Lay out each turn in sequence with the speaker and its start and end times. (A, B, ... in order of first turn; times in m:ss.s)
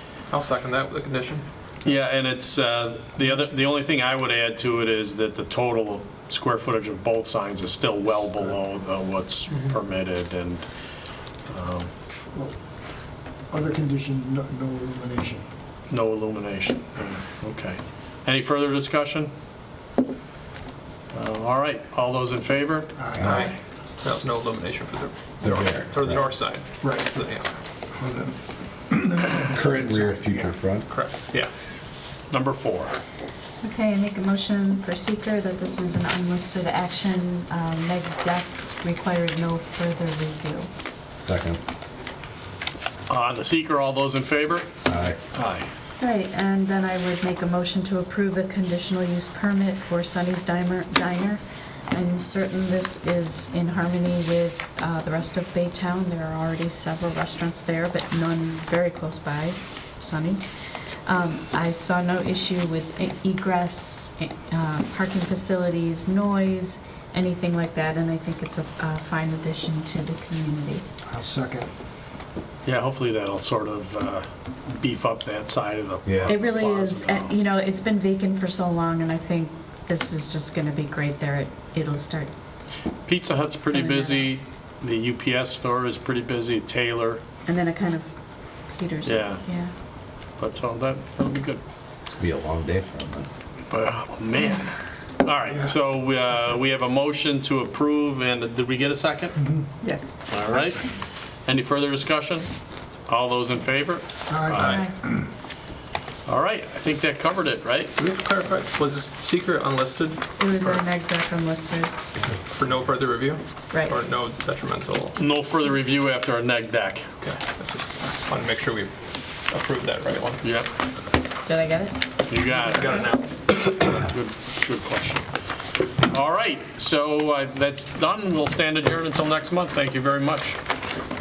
0:00.3-0:01.4 A
0:01.8-0:10.6 B
0:11.4-0:11.9 B
0:12.3-0:12.6 C
0:13.5-0:15.5 C
0:15.9-0:19.3 B
0:21.1-0:22.9 B
0:23.0-0:23.4 C
0:23.2-0:23.5 D
0:23.2-0:27.5 A
0:25.4-0:26.2 D
0:26.8-0:27.1 C
0:27.9-0:30.5 C
0:29.5-0:30.9 D
0:30.9-0:31.5 A
0:32.3-0:33.0 B
0:33.6-0:40.7 E
0:41.2-0:41.6 D
0:43.1-0:44.7 B
0:44.8-0:45.2 D
0:45.3-0:45.7 B
0:46.0-1:10.8 E
1:11.1-1:11.7 C
1:12.6-1:17.3 B
1:16.0-1:16.3 D
1:16.3-1:22.3 E
1:23.0-1:27.2 B
1:23.7-1:24.3 E
1:27.4-1:29.7 E
1:29.0-1:29.4 B
1:30.4-1:31.6 B
1:32.0-1:33.3 D
1:33.7-1:39.4 B
1:39.8-1:40.1 E
1:40.3-1:40.9 B
1:41.4-1:42.5 B
1:43.1-1:44.8 B
1:44.3-1:45.2 C
1:44.6-1:44.8 A
1:44.7-1:44.9 E
1:46.2-1:47.9 B
1:48.0-1:50.8 A
1:50.4-1:51.9 E
1:52.5-1:55.2 A
1:55.1-1:57.1 B
1:57.2-2:00.4 A
2:00.4-2:00.7 B
2:01.4-2:02.0 E
2:02.3-2:02.9 B
2:02.4-2:03.4 A
2:03.8-2:05.2 B
2:06.0-2:10.6 B